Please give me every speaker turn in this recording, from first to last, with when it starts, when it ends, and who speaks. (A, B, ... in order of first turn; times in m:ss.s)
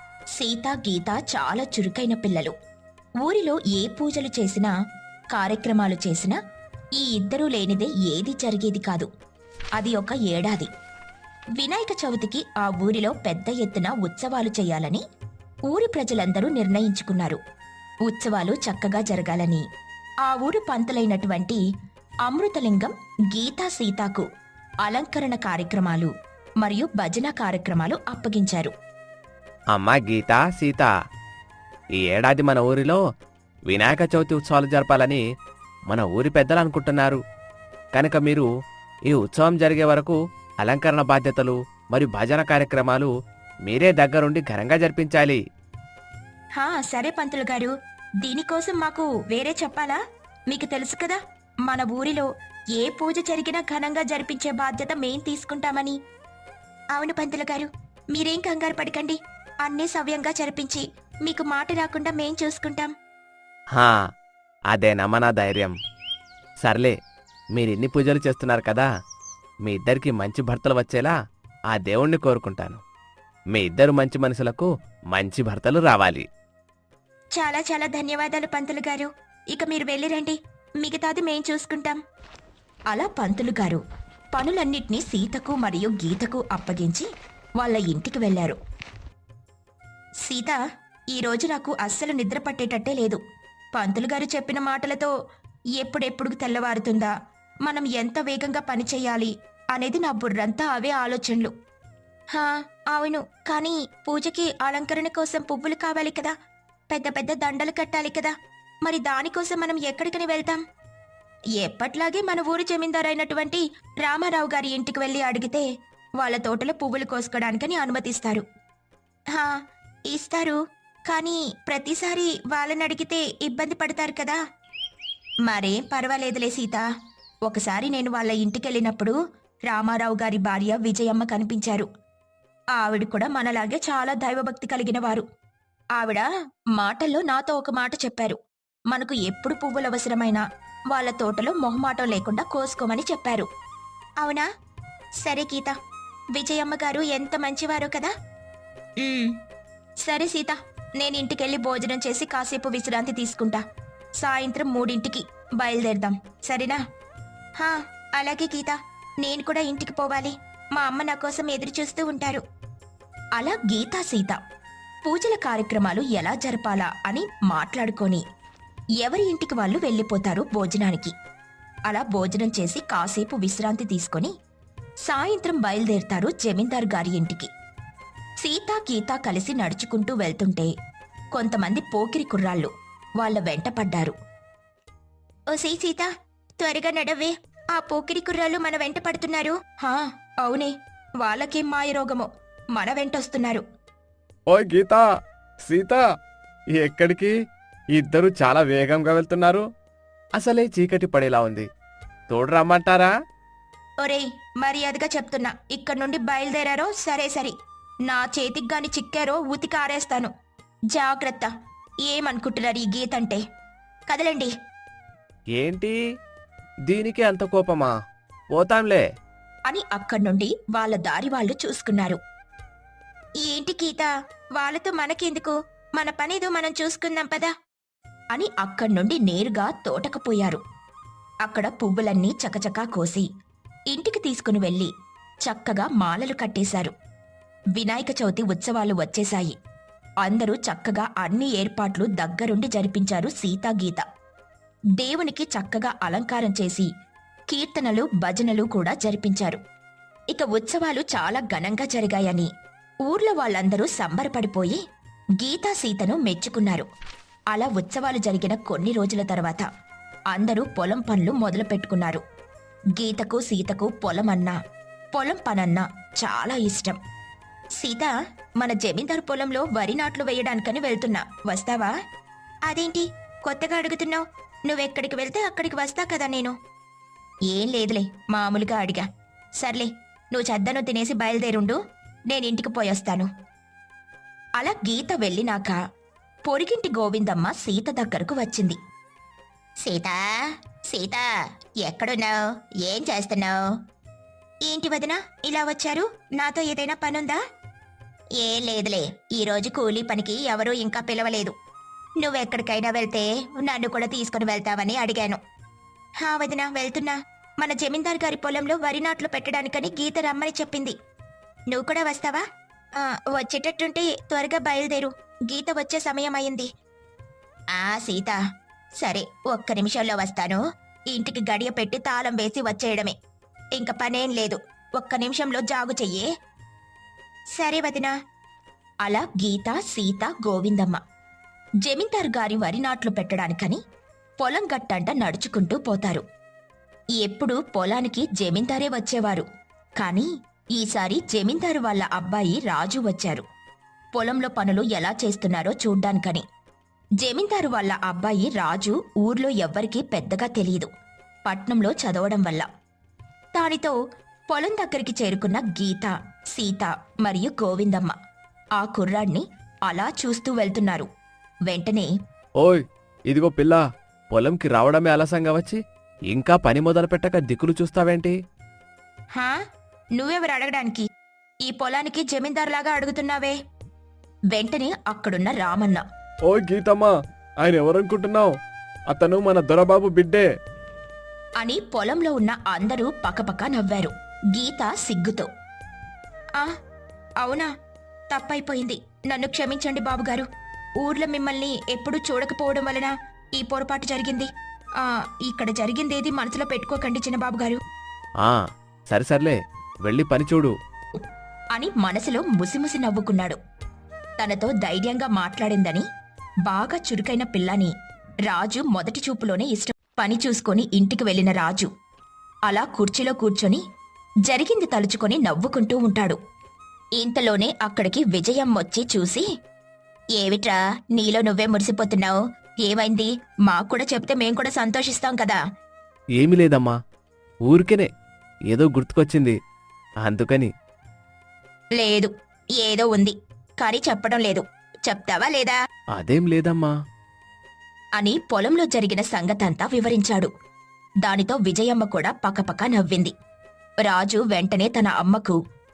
0:00.4-0:02.6 A
0:03.2-0:04.7 A
0:05.3-0:06.4 A
0:07.0-0:09.1 A
0:09.8-0:10.7 A
0:11.6-0:15.0 A
0:15.7-0:17.4 A
0:18.0-0:19.6 A
0:20.2-0:21.6 A
0:22.2-0:24.3 A
0:24.8-0:28.7 A
0:29.7-0:30.9 B
0:32.0-0:33.0 B
0:33.7-0:35.2 B
0:35.9-0:37.2 B
0:37.9-0:38.5 B
0:39.1-0:43.1 B
0:43.7-0:45.4 B
0:46.6-0:56.0 A
0:56.9-1:02.9 A
1:03.7-1:04.1 B
1:04.7-1:05.8 B
1:06.6-1:07.0 B
1:07.6-1:08.9 B
1:09.6-1:11.2 B
1:11.7-1:12.8 B
1:13.5-1:16.3 B
1:17.4-1:22.0 A
1:22.9-1:23.8 A
1:24.3-1:27.1 A
1:27.6-1:28.6 A
1:30.2-1:30.6 A
1:31.1-1:33.2 A
1:33.8-1:35.1 A
1:35.8-1:37.1 A
1:37.6-1:41.5 A
1:42.3-1:46.3 A
1:46.9-1:48.3 A
1:48.8-1:50.6 A
1:51.6-1:55.7 A
1:56.2-1:58.4 A
1:59.3-2:04.4 A
2:05.4-2:06.8 A
2:07.4-2:09.2 A
2:09.7-2:11.9 A
2:12.8-2:15.3 A
2:16.0-2:18.4 A
2:18.9-2:23.5 A
2:24.2-2:24.5 A
2:25.2-2:25.8 A
2:26.4-2:28.1 A
2:29.0-2:29.4 A
2:30.0-2:33.6 A
2:34.2-2:36.8 A
2:37.6-2:42.4 A
2:43.4-2:44.4 A
2:45.0-2:48.2 A
2:49.0-2:51.1 A
2:51.9-2:54.3 A
2:55.0-2:57.5 A
2:58.4-3:00.7 A
3:01.4-3:04.1 A
3:05.5-3:13.6 A
3:14.5-3:15.0 B
3:15.6-3:16.0 B
3:16.7-3:17.3 B
3:18.0-3:19.7 B
3:20.4-3:21.7 B
3:22.3-3:23.1 B
3:24.0-3:27.6 A
3:28.1-3:30.3 A
3:30.9-3:31.5 A
3:32.0-3:33.4 A
3:34.1-3:34.5 A
3:35.6-3:36.0 B
3:36.9-3:37.9 B
3:38.5-3:39.0 B
3:39.7-3:42.2 A
3:43.4-3:47.5 A
3:48.3-3:50.6 A
3:51.4-3:53.3 A
3:53.9-3:54.9 A
3:55.4-3:56.9 A
3:57.8-3:59.6 A
4:00.2-4:04.1 A
4:05.0-4:06.9 A
4:07.5-4:09.6 A
4:10.3-4:12.5 A
4:13.0-4:14.8 A
4:15.4-4:16.9 A
4:17.5-4:19.7 A
4:20.3-4:22.2 A
4:23.0-4:24.6 A
4:25.1-4:27.0 A
4:27.8-4:31.9 A
4:32.7-4:36.6 A
4:37.5-4:39.1 A
4:39.6-4:41.8 A
4:42.3-4:43.3 A
4:44.6-4:45.8 A
4:46.5-4:48.8 A
4:49.8-4:51.3 A
4:51.8-4:53.6 A
4:54.7-4:57.4 A
4:58.4-5:01.6 A
5:02.2-5:05.4 A
5:06.2-5:11.0 A
5:11.7-5:12.4 A
5:13.0-5:16.7 A
5:17.7-5:18.4 A
5:19.0-5:23.2 A
5:23.8-5:26.3 A
5:27.6-5:28.1 A
5:29.0-5:31.0 A
5:31.8-5:33.8 A
5:34.4-5:36.2 A
5:37.2-5:39.5 A
5:40.0-5:43.4 A
5:44.2-5:46.4 A
5:47.2-5:50.9 A
5:51.5-5:52.7 A
5:53.6-5:54.0 A
5:54.5-5:58.2 A
5:58.8-6:01.1 A
6:01.7-6:02.1 A
6:02.6-6:08.4 B
6:10.2-6:11.1 A
6:11.6-6:13.6 A
6:14.5-6:16.0 A
6:16.5-6:18.6 B
6:19.1-6:20.5 B
6:21.6-6:25.5 A
6:27.4-6:27.7 A
6:28.3-6:30.5 A
6:31.0-6:37.8 A
6:38.4-6:40.7 B
6:41.8-6:43.6 A
6:44.4-6:46.1 A
6:46.6-6:47.9 A
6:48.5-6:51.9 A
6:52.7-6:53.8 A
6:54.5-6:56.4 A
6:57.2-6:59.5 A
7:00.4-7:05.6 A
7:06.4-7:07.0 B
7:07.7-7:08.1 B
7:08.7-7:09.6 B
7:10.2-7:10.7 B
7:12.0-7:15.8 A
7:16.2-7:16.9 B
7:18.2-7:20.5 A
7:21.2-7:23.3 A
7:24.0-7:25.6 A